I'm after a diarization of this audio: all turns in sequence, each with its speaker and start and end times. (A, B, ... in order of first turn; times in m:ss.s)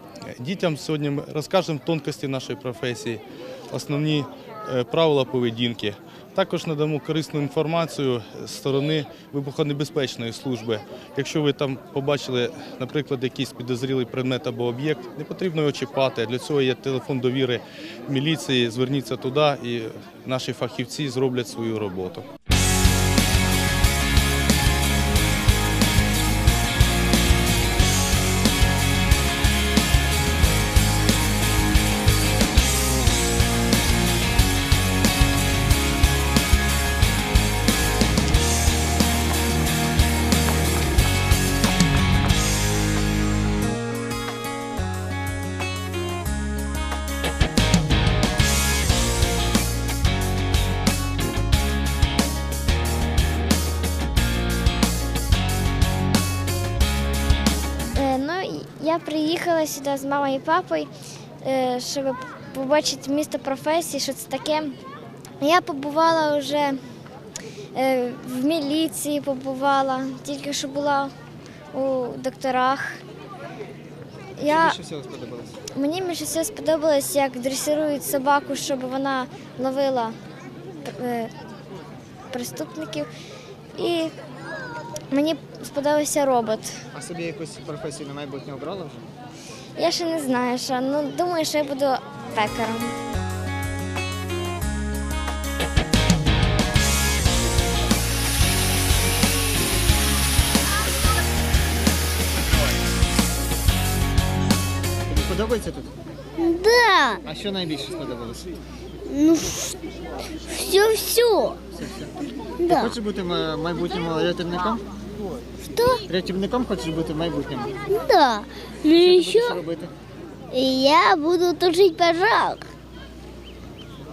0:00.4-0:22.3 A
0:58.0-1:00.9 B
1:01.4-1:04.8 B
1:05.4-1:06.8 B
1:07.8-1:11.1 B
1:11.7-1:13.0 B
1:14.4-1:14.8 B
1:14.5-1:15.6 C
1:15.8-1:20.2 B
1:20.9-1:21.3 B
1:22.3-1:23.1 B
1:23.8-1:24.1 B
1:25.1-1:26.8 B
1:26.9-1:29.1 C
1:29.8-1:32.9 B
1:45.1-1:45.9 C
1:46.4-1:47.2 D
1:47.2-1:48.5 C
1:49.1-1:49.7 D
1:50.5-1:51.6 D
1:51.7-1:52.1 C
1:52.7-1:54.8 C
1:55.7-1:56.0 D
1:56.0-1:57.8 C
1:57.9-1:59.6 D
1:58.9-1:59.9 C
2:00.5-2:02.6 D